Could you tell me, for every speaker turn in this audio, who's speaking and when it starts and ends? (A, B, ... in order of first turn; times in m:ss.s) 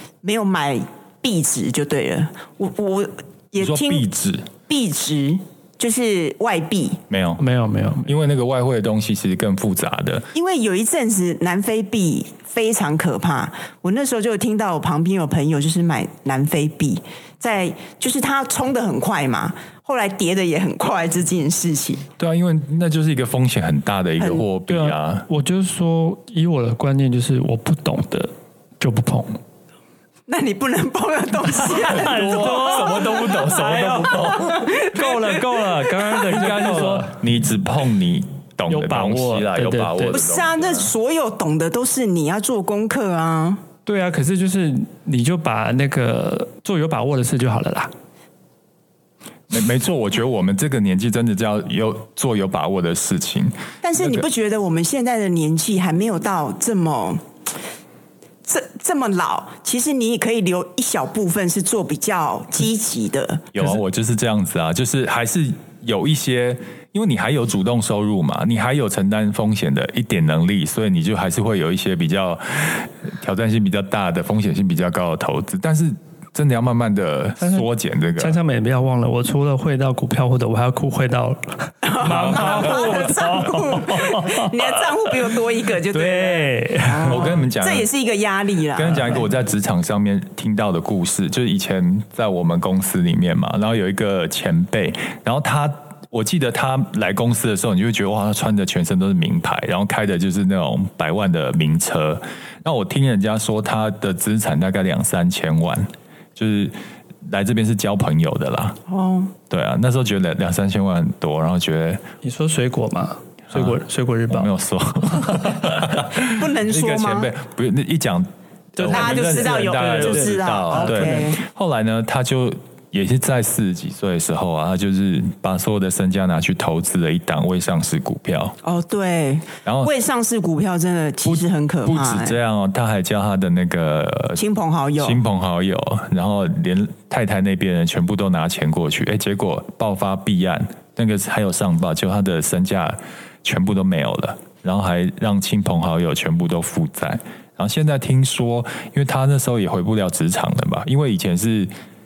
0:00.2-0:04.1 A
0:03.6-0:04.5 B
0:04.7-0:07.0 A
0:07.1-0:07.4 B
0:07.4-0:08.1 C
0:08.0-0:10.3 B
0:10.3-0:22.1 A
0:22.2-0:25.3 B
0:24.2-0:24.4 A
0:24.7-0:29.4 C
0:30.3-0:35.4 A
0:31.5-0:37.2 C
0:31.9-0:34.8 B
0:36.1-0:40.9 B
0:38.7-0:40.2 C
0:40.1-0:43.6 A
0:43.9-0:47.9 C
0:49.5-0:54.3 B
0:53.8-0:57.2 A
0:58.5-1:03.5 A
1:03.5-1:18.4 B
1:17.4-1:24.8 C
1:21.8-1:29.2 A
1:22.1-1:22.7 B
1:25.9-1:27.3 C
1:27.0-1:27.9 B
1:28.8-1:46.7 B
1:47.2-1:48.8 B
1:48.9-1:49.3 A
1:49.5-1:52.0 B
1:52.2-1:54.5 C
1:53.5-2:08.6 B
1:55.2-1:55.6 C
1:56.2-1:57.3 A
1:58.8-2:01.3 C
1:58.9-2:01.4 A
2:08.6-2:12.4 A
2:09.6-2:09.9 B
2:11.2-2:14.4 B
2:14.4-2:15.2 A
2:15.0-2:31.7 B